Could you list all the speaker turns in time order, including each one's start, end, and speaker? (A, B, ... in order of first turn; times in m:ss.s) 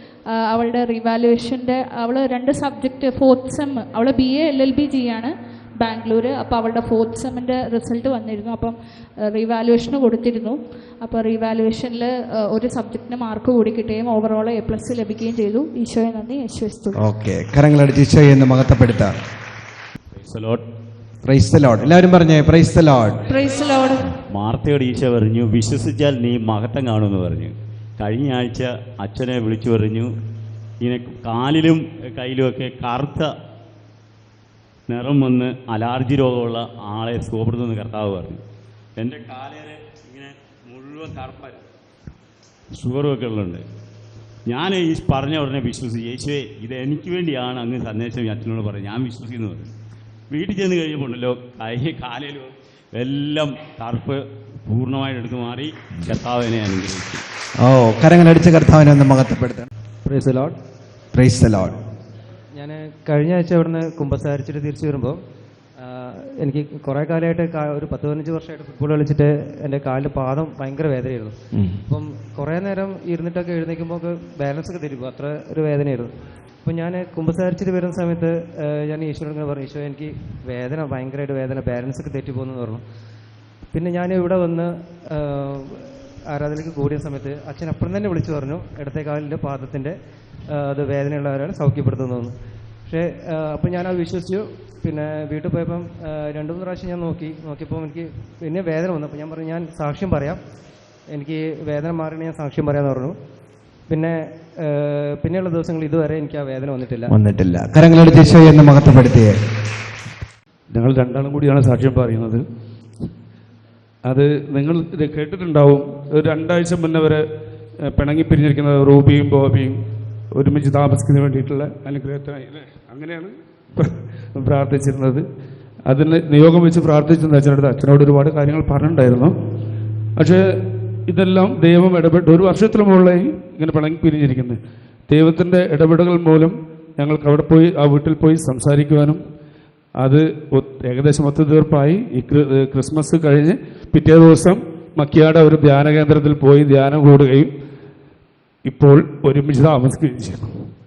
0:00.3-0:17.0 A
0:17.0-0:19.2 B
0:20.2-0:20.6 C
0:21.2-0:23.2 B
0:23.3-0:24.2 A
0:24.3-0:30.1 C
0:30.8-0:33.3 C
0:34.9-0:38.4 C
0:39.0-0:41.6 C
0:42.7-0:43.6 C
0:44.5-0:49.7 C
0:50.3-0:57.2 C
0:57.6-0:59.7 B
1:00.0-1:00.6 D
1:01.1-1:01.8 B
1:02.5-1:05.2 D
1:05.8-1:16.1 D
1:11.5-1:11.8 B
1:16.6-1:22.8 D
1:23.7-1:30.0 D
1:30.5-1:32.4 D
1:32.9-1:40.4 D
1:41.1-1:43.2 D
1:43.9-1:47.1 D
1:47.1-1:49.4 B
1:50.7-1:52.4 E
1:54.0-1:57.2 E
1:57.8-1:59.8 E
2:00.3-2:05.2 E
2:05.8-2:09.4 E
2:10.2-2:19.2 E
2:20.0-2:27.5 E
2:28.6-2:30.7 E